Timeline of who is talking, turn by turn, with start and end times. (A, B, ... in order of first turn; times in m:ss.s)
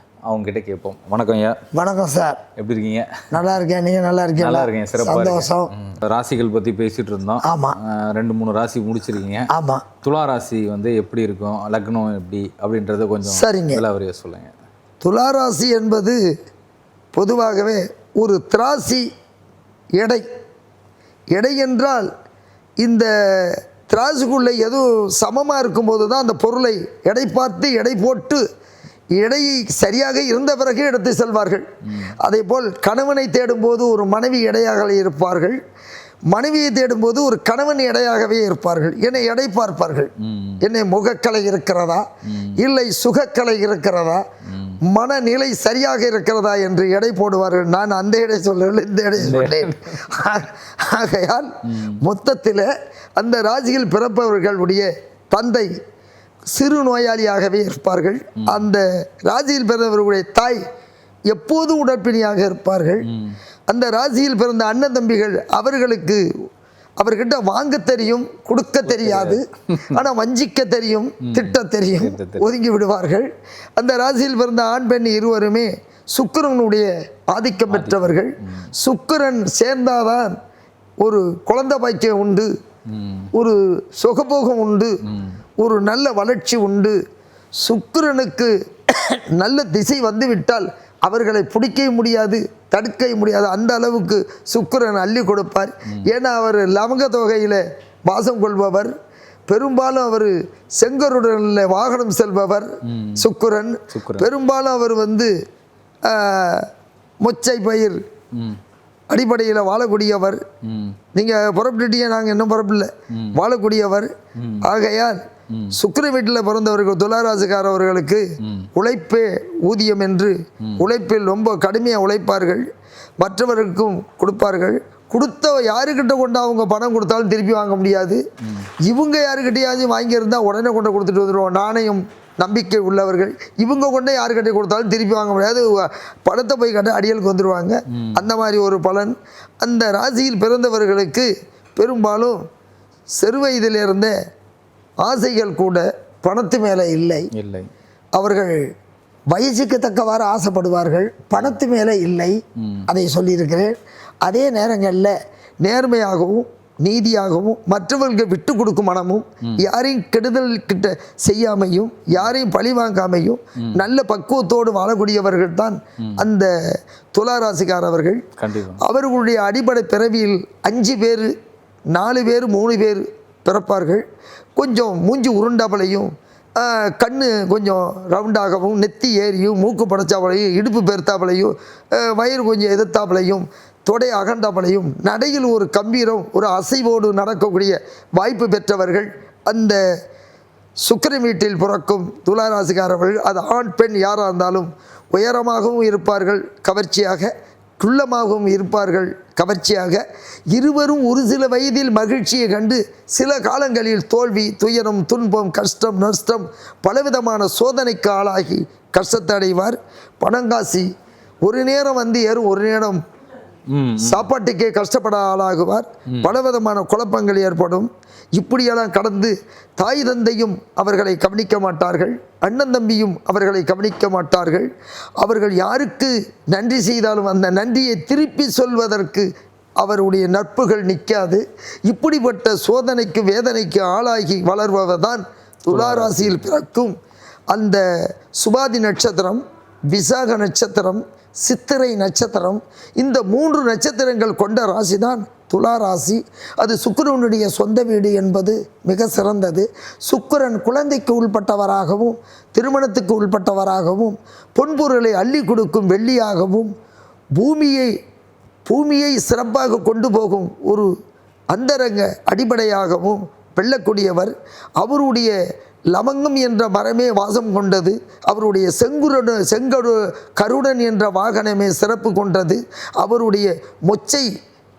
0:00.3-0:01.6 A
0:01.7-0:02.4 B
0:02.6-0:03.1 A
0:03.3-0:05.7 B
0:04.4-0:09.5 A
0:07.4-0:07.8 B
0:09.5-0:09.8 B
0:10.0-0:14.6 A
0:13.3-0:13.8 B
0:15.0-0:16.2 B
0:17.1-0:19.1 B
0:20.0-0:20.3 B
0:21.3-0:22.1 B
0:22.8-0:28.4 B
0:29.2-0:31.7 B
0:32.2-0:35.6 B
0:36.3-0:40.1 B
0:40.2-0:40.6 A
0:40.6-0:42.1 B
0:42.3-0:42.6 A
0:42.6-0:44.2 B
0:44.5-0:44.8 A
0:44.9-0:55.7 B
0:49.2-0:50.0 A
0:51.7-0:52.0 A
0:56.5-1:00.6 B
1:01.3-1:03.1 B
1:03.0-1:03.4 A
1:03.7-1:06.2 B
1:07.0-1:20.3 B
1:08.9-1:10.0 A
1:11.2-1:12.4 A
1:17.7-1:18.7 A
1:21.0-1:22.5 B
1:22.9-1:23.3 A
1:23.3-1:25.0 B
1:25.0-1:25.4 A
1:25.6-1:27.0 B
1:27.6-1:38.9 B
1:39.5-1:45.3 B
1:42.9-1:43.3 A
1:43.9-1:44.3 A
1:46.1-1:46.7 B
1:47.2-1:48.0 B
1:49.1-1:50.4 B
1:50.6-1:51.0 A
1:51.2-1:54.1 B
1:53.1-1:53.4 A
1:54.4-1:54.7 A
1:54.6-1:55.2 B
1:55.7-2:02.7 B
1:58.4-1:58.7 A
2:03.2-2:08.2 B
2:08.8-2:22.4 B
2:17.9-2:18.3 A
2:23.2-2:24.1 B
2:25.0-2:27.3 B
2:27.3-2:27.7 A
2:28.2-2:28.6 B
2:29.3-2:46.5 B
2:32.6-2:32.9 A
2:47.2-2:48.2 B
2:48.4-2:48.8 A
2:48.8-2:51.3 B
2:51.9-2:54.0 B
2:54.6-3:09.8 B
3:10.8-3:30.9 B
3:31.4-3:33.0 B
3:33.7-3:34.3 A
3:34.0-3:49.3 B
3:49.8-3:57.0 B
3:55.7-3:56.5 A
3:57.5-3:57.8 B
3:58.4-4:16.7 B
4:17.4-4:17.9 B
4:18.7-4:20.9 B
4:21.5-4:25.4 B
4:25.9-4:34.3 B